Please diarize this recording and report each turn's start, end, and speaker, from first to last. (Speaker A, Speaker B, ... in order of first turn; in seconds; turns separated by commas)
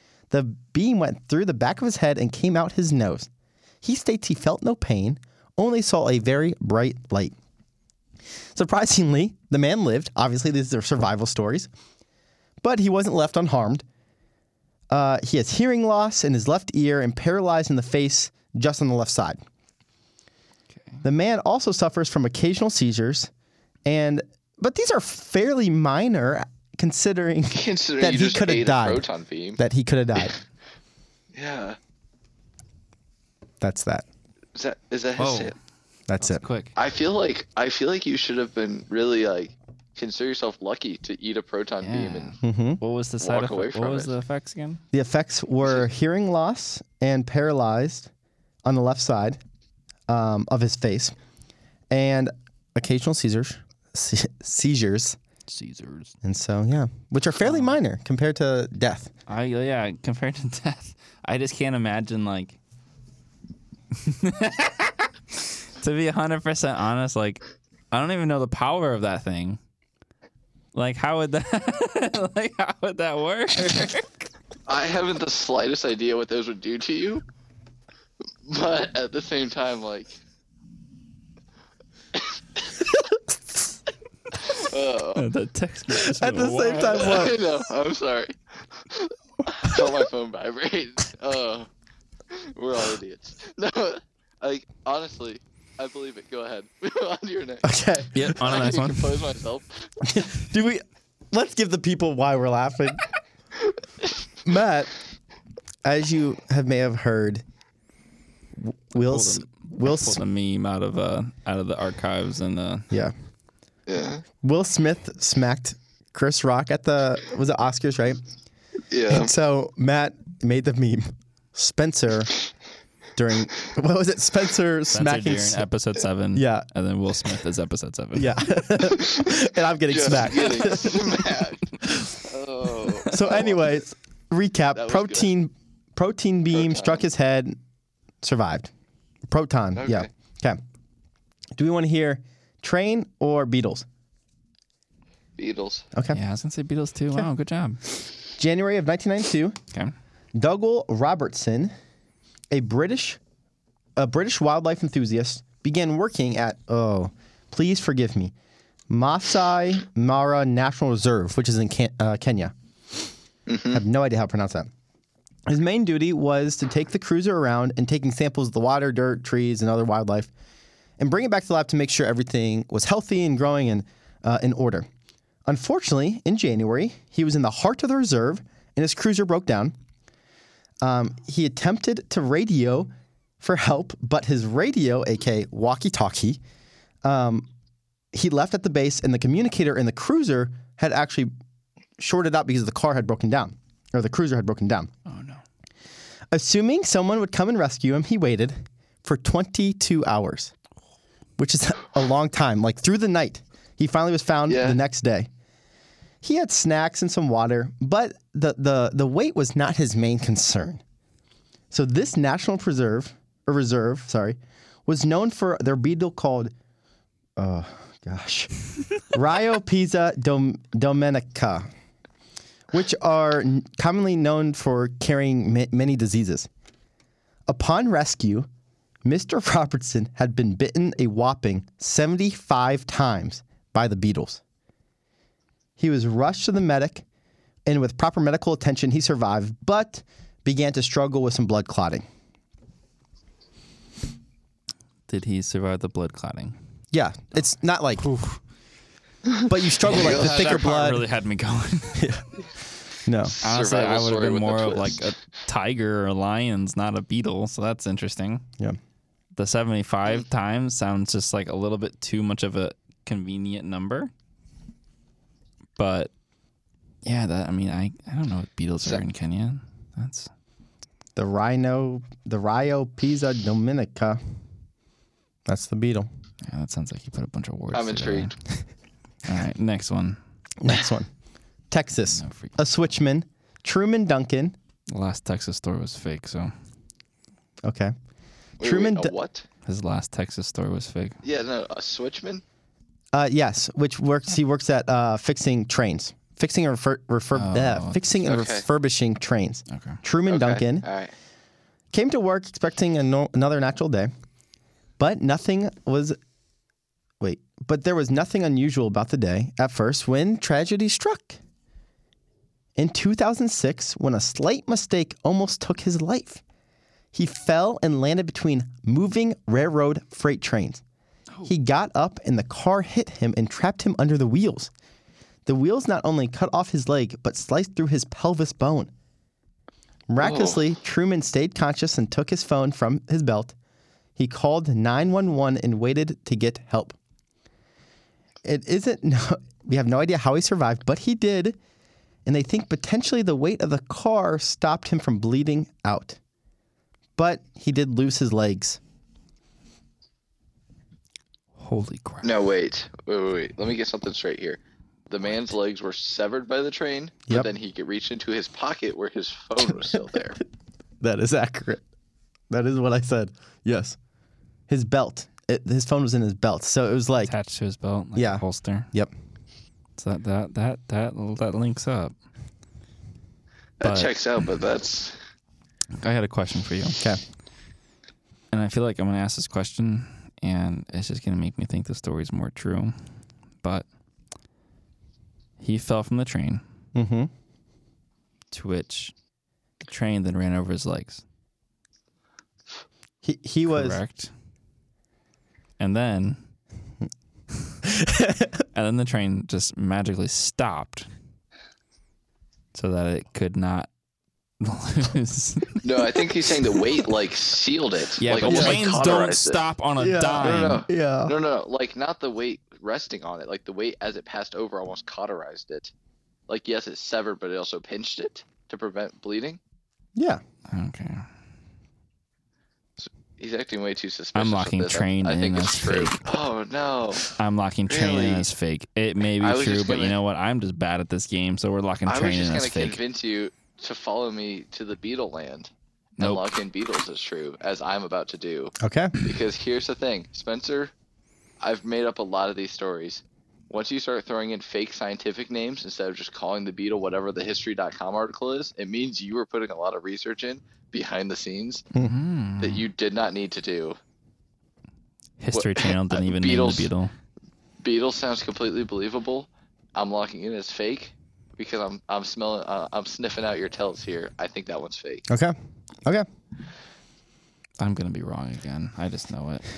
Speaker A: 0.3-3.3, Speaker A: 3.8-7.3, Speaker A: 8.5-11.7, Speaker A: 12.6-13.8, Speaker A: 14.9-19.4, Speaker A: 21.0-23.3, Speaker A: 23.9-29.1, Speaker B: 27.5-29.6, Speaker A: 29.6-30.3, Speaker B: 31.3-31.8, Speaker A: 33.6-34.1, Speaker B: 34.5-35.5, Speaker C: 35.2-35.5, Speaker A: 36.1-36.4, Speaker C: 36.2-36.7, Speaker B: 36.8-42.4, Speaker C: 41.8-44.8, Speaker A: 42.4-42.8, Speaker B: 43.2-44.1, Speaker A: 44.9-48.1, Speaker A: 48.6-49.4, Speaker A: 50.1-51.1, Speaker A: 51.9-55.2, Speaker C: 55.5-56.1, Speaker A: 56.2-59.1, Speaker C: 57.4-57.8, Speaker C: 59.3-62.6, Speaker C: 64.0-69.6, Speaker C: 70.7-74.1, Speaker B: 74.7-77.2, Speaker B: 78.5-80.1, Speaker B: 84.4-85.3, Speaker C: 85.2-87.3, Speaker A: 85.9-87.4, Speaker B: 86.9-91.7, Speaker B: 92.3-97.7, Speaker A: 97.6-98.5, Speaker C: 98.2-99.2, Speaker B: 98.2-100.1, Speaker A: 100.0-103.0, Speaker A: 104.5-104.9, Speaker A: 105.8-107.4, Speaker A: 108.6-110.2, Speaker C: 109.0-112.9, Speaker B: 113.9-114.2, Speaker A: 114.4-118.2, Speaker B: 118.9-119.3, Speaker A: 119.1-122.3, Speaker A: 123.2-125.6, Speaker C: 124.9-128.6, Speaker A: 126.3-126.7, Speaker A: 128.2-131.1, Speaker B: 128.9-133.7, Speaker A: 131.8-132.1, Speaker A: 133.1-137.6, Speaker B: 134.7-135.3, Speaker B: 136.5-137.0, Speaker A: 138.2-138.7, Speaker A: 139.3-140.6, Speaker B: 139.8-140.1, Speaker A: 141.6-143.9, Speaker B: 145.4-145.9, Speaker A: 145.9-146.2, Speaker C: 146.1-147.8, Speaker A: 148.4-149.6, Speaker A: 150.3-151.7, Speaker A: 152.5-153.2, Speaker A: 154.0-158.3, Speaker A: 158.9-162.5, Speaker B: 163.5-163.8, Speaker A: 163.7-164.7, Speaker A: 165.5-170.3, Speaker A: 171.0-174.9, Speaker A: 175.5-179.7, Speaker A: 180.8-186.4, Speaker A: 187.0-187.5, Speaker A: 188.1-191.3, Speaker A: 192.0-194.9, Speaker C: 195.1-195.4, Speaker A: 196.3-200.5, Speaker A: 201.4-205.3, Speaker B: 204.5-204.8, Speaker A: 206.2-210.8, Speaker A: 211.7-216.5, Speaker A: 217.4-221.7, Speaker A: 222.7-226.5, Speaker A: 227.5-228.5, Speaker A: 229.1-234.4, Speaker A: 235.8-237.1, Speaker A: 237.7-242.1, Speaker C: 245.1-246.6, Speaker A: 246.9-248.1, Speaker C: 248.0-248.4, Speaker B: 249.3-250.6, Speaker A: 249.5-251.1, Speaker C: 249.8-252.2, Speaker A: 252.0-252.2, Speaker A: 253.1-253.3, Speaker B: 253.3-255.1, Speaker C: 253.4-258.4, Speaker C: 259.4-264.1, Speaker C: 265.8-266.1, Speaker C: 267.1-270.3, Speaker A: 271.2-274.2, Speaker A: 275.5-276.1, Speaker C: 276.4-278.3, Speaker B: 277.7-278.3, Speaker C: 279.2-280.2, Speaker A: 280.6-281.1, Speaker A: 281.7-284.6, Speaker C: 282.1-282.6, Speaker C: 284.9-286.5, Speaker A: 287.6-287.9, Speaker B: 288.6-289.4, Speaker A: 288.6-289.1, Speaker C: 289.7-291.2, Speaker B: 291.2-292.4, Speaker A: 293.1-300.9, Speaker C: 297.3-298.0, Speaker B: 298.2-298.7, Speaker C: 299.7-300.0, Speaker B: 300.3-301.1, Speaker A: 301.9-304.1, Speaker A: 305.0-306.2, Speaker A: 307.2-311.4, Speaker A: 312.8-316.4, Speaker A: 317.1-320.8, Speaker A: 321.4-324.7, Speaker A: 325.5-328.9, Speaker A: 330.1-333.5, Speaker B: 330.2-330.8, Speaker A: 334.2-337.0, Speaker A: 338.4-341.6, Speaker A: 342.3-346.2, Speaker A: 347.2-348.8, Speaker C: 351.6-352.3, Speaker B: 352.2-360.4, Speaker A: 361.0-361.8, Speaker A: 362.5-364.0, Speaker A: 364.7-367.3, Speaker C: 367.3-368.9, Speaker A: 368.1-369.1, Speaker C: 370.0-372.1, Speaker B: 373.8-375.2, Speaker C: 373.8-374.1, Speaker C: 376.0-377.0, Speaker C: 378.5-382.9, Speaker C: 385.6-386.6, Speaker A: 386.9-387.3, Speaker C: 388.5-389.1, Speaker C: 389.8-391.2, Speaker A: 393.2-394.0, Speaker C: 393.7-394.3, Speaker C: 395.8-396.4, Speaker A: 397.9-398.6, Speaker C: 398.7-401.1, Speaker C: 402.7-403.9, Speaker C: 404.6-406.2, Speaker B: 405.8-409.6, Speaker C: 408.2-410.8, Speaker A: 408.4-408.8, Speaker A: 410.0-411.3, Speaker B: 410.4-415.9, Speaker B: 416.5-419.6, Speaker A: 420.2-420.4, Speaker C: 420.7-421.2, Speaker B: 423.0-427.3, Speaker C: 424.4-426.4, Speaker C: 427.4-433.0, Speaker B: 427.9-428.5, Speaker B: 429.4-430.2, Speaker B: 432.1-440.9, Speaker A: 438.8-439.1, Speaker B: 441.6-451.9, Speaker C: 452.0-452.9, Speaker B: 452.6-454.0, Speaker C: 455.4-457.1, Speaker B: 455.5-456.9, Speaker B: 457.8-465.3, Speaker A: 465.3-466.3, Speaker C: 467.8-469.6